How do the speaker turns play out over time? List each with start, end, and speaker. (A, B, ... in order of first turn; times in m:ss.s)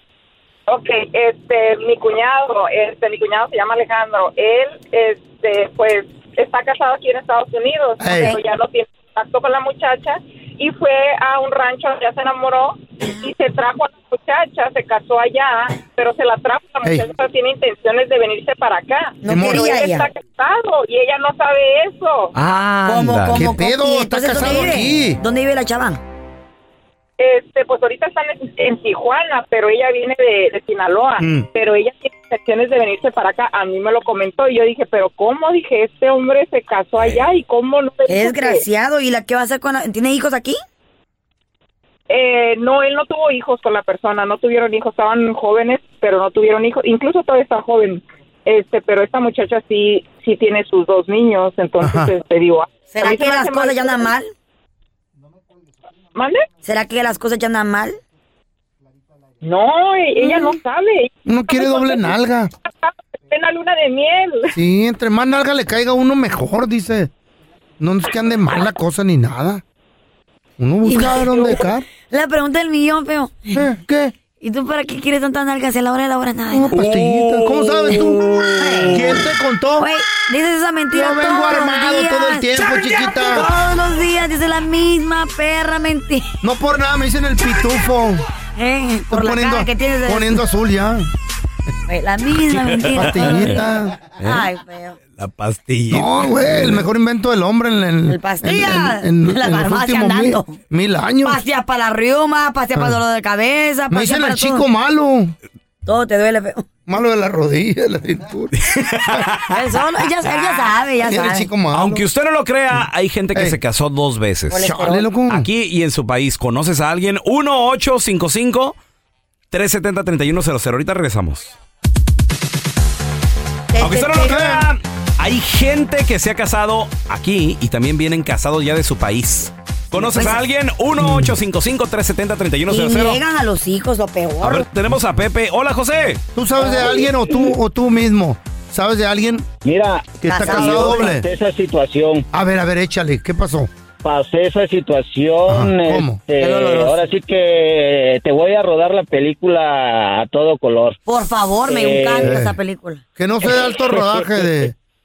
0:00.7-0:22.3 A
0:08.0-0:08.3 B
0:19.2-0:20.1 C
0:19.3-0:19.7 B
0:22.3-0:23.5 D
0:22.8-0:26.0 C
0:23.3-0:25.2 B
0:27.2-0:38.6 A
0:31.2-0:31.5 B
0:37.0-0:37.3 D
0:38.0-0:40.6 C
0:42.1-0:54.1 A
0:51.8-0:52.1 B
0:52.9-0:54.3 C
0:56.1-0:56.4 A
0:56.6-0:58.0 C
0:59.4-1:04.5 A
1:01.2-1:02.5 B
1:04.5-1:07.1 B
1:07.8-1:09.6 B
1:10.6-1:11.9 B
1:10.8-1:13.6 C
1:13.5-1:14.1 B
1:14.3-1:19.2 C
1:16.5-1:18.2 B
1:18.9-1:19.9 B
1:19.8-1:26.2 C
1:20.9-1:23.5 B
1:26.4-1:28.2 B
1:28.5-1:30.4 C
1:29.1-1:31.1 B
1:31.9-1:33.6 C
1:32.5-1:33.3 D
1:32.9-1:34.0 B
1:34.2-1:35.0 C
1:34.2-1:34.5 D
1:35.2-1:36.8 D
1:35.9-1:41.4 B
1:38.1-1:40.5 C
1:41.2-1:44.6 C
1:42.7-1:43.0 B
1:43.9-1:45.3 B
1:45.8-1:46.7 C
1:46.9-1:48.5 B
1:48.7-1:49.5 D
1:49.5-1:51.5 C
1:50.2-1:50.7 D
1:51.0-1:52.1 B
1:51.7-1:54.6 D
1:53.3-1:53.6 B
1:54.5-1:55.1 C
1:54.6-1:55.5 B
1:55.3-1:58.8 D
1:59.5-2:01.5 D
2:03.7-2:04.3 C
2:03.8-2:13.2 D
2:04.2-2:04.7 B
2:10.0-2:10.4 C
2:11.0-2:11.4 B
2:12.6-2:14.7 C
2:14.4-2:16.2 D
2:16.3-2:19.5 B
2:16.6-2:17.5 E
2:19.6-2:22.2 E
2:20.2-2:21.3 B
2:20.3-2:21.1 C
2:22.3-2:23.7 B
2:24.0-2:31.0 E
2:25.5-2:26.2 B
2:26.4-2:27.0 C
2:31.0-2:33.0 C
2:31.6-2:32.3 E
2:32.2-2:32.6 B
2:33.2-2:34.7 B
2:33.4-2:34.7 E